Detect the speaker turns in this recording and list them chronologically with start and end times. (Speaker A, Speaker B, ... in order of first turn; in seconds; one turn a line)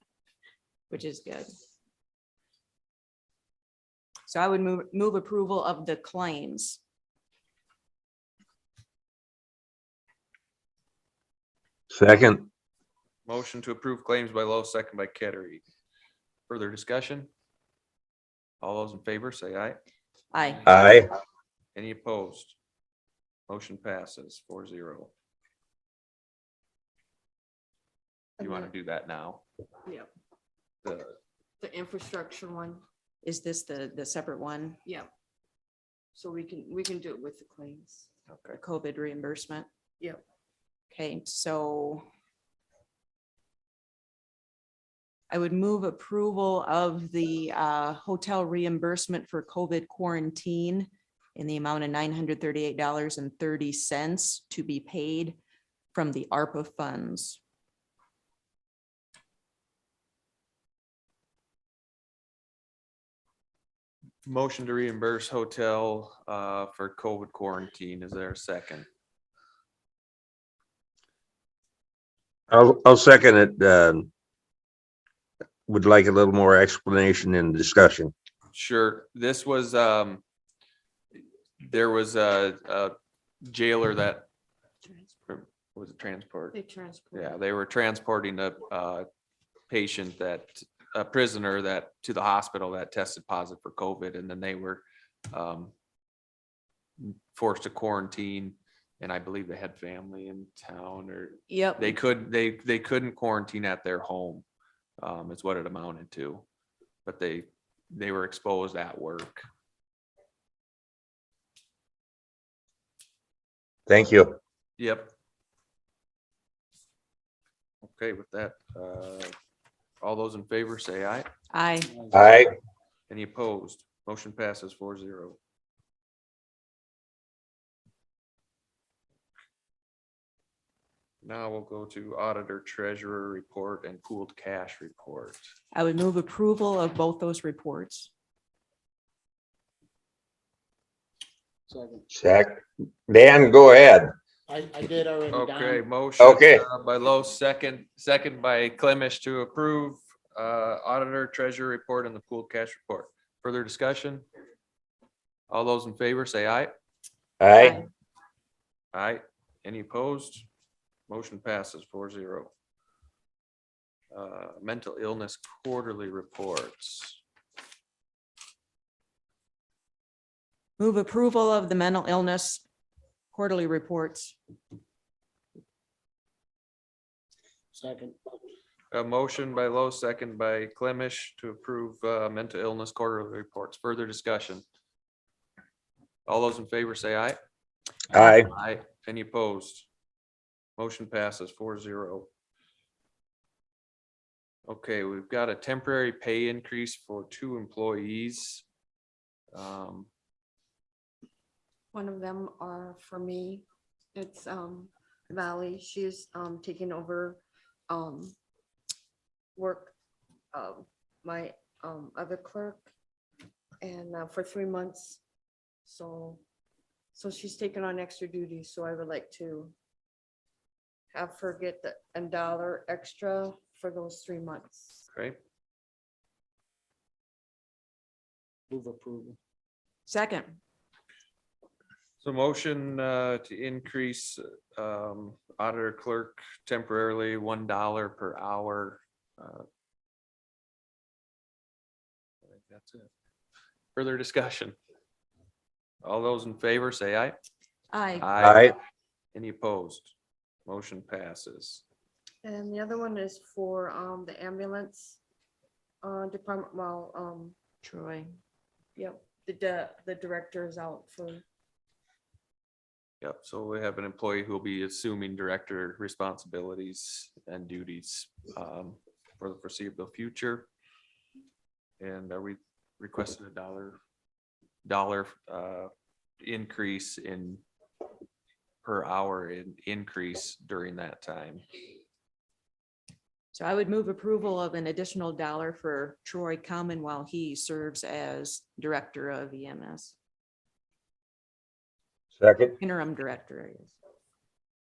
Speaker A: 0.9-1.5
Speaker A: 4.3-6.8
Speaker B: 11.9-12.5
Speaker C: 13.3-15.6
Speaker C: 16.5-17.3
Speaker C: 18.6-19.8
Speaker A: 20.3-20.6
Speaker B: 20.7-21.1
Speaker C: 21.8-22.6
Speaker C: 23.5-25.1
Speaker D: 28.4-28.7
Speaker C: 28.4-29.4
Speaker D: 29.9-30.1
Speaker C: 30.8-31.2
Speaker D: 31.6-32.8
Speaker A: 33.2-34.8
Speaker D: 36.1-38.1
Speaker C: 38.3-38.6
Speaker A: 38.5-39.7
Speaker A: 40.9-42.0
Speaker A: 45.3-55.4
Speaker A: 55.9-57.4
Speaker C: 64.3-68.9
Speaker B: 72.5-74.1
Speaker B: 75.7-78.1
Speaker C: 78.5-80.2
Speaker C: 81.6-84.3
Speaker D: 84.8-85.1
Speaker C: 85.3-86.6
Speaker D: 86.5-87.4
Speaker C: 87.1-89.1
Speaker C: 89.7-95.7
Speaker C: 97.0-104.5
Speaker A: 101.5-102.0
Speaker C: 105.0-106.4
Speaker C: 107.0-109.4
Speaker B: 113.9-114.4
Speaker C: 114.8-115.1
Speaker C: 117.8-119.3
Speaker C: 120.0-121.3
Speaker A: 121.5-121.9
Speaker B: 122.1-122.5
Speaker C: 123.1-125.4
Speaker C: 131.2-135.4
Speaker A: 135.7-138.1
Speaker E: 141.7-142.1
Speaker B: 142.1-144.1
Speaker E: 144.5-145.9
Speaker C: 145.3-154.2
Speaker B: 146.2-146.6
Speaker C: 155.5-156.7
Speaker B: 157.4-157.8
Speaker A: 157.6-157.8
Speaker C: 158.9-160.5
Speaker C: 161.1-162.5
Speaker C: 164.1-167.2
Speaker A: 170.8-172.6
Speaker A: 173.3-174.4
Speaker E: 177.7-178.2
Speaker C: 178.9-184.6
Speaker C: 186.3-187.4
Speaker B: 188.1-188.5
Speaker C: 188.2-189.9
Speaker C: 190.8-192.3
Speaker C: 194.7-198.6
Speaker C: 199.5-200.1
Speaker D: 201.9-208.3
Speaker D: 209.6-209.9
Speaker D: 210.5-212.9
Speaker D: 213.8-215.2
Speaker D: 215.9-216.4
Speaker D: 217.1-219.7
Speaker D: 221.1-225.0
Speaker C: 225.1-225.4
Speaker E: 228.7-229.4
Speaker A: 230.1-230.6
Speaker C: 232.2-239.7
Speaker C: 242.5-243.1
Speaker C: 243.9-244.8
Speaker C: 246.0-247.3
Speaker A: 247.9-248.3
Speaker C: 248.2-248.7
Speaker B: 248.4-248.8
Speaker C: 249.3-250.1
Speaker C: 250.7-251.8
Speaker D: 252.4-255.2
Speaker D: 256.0-257.6
Speaker A: 257.8-258.4
Speaker D: 259.0-261.4
Speaker C: 263.2-270.7
Speaker C: 272.0-274.0
Speaker C: 274.9-275.9
Speaker C: 276.4-277.6
Speaker C: 278.8-281.6
Speaker A: 283.5-290.1
Speaker B: 292.4-292.8
Speaker A: 292.8-293.9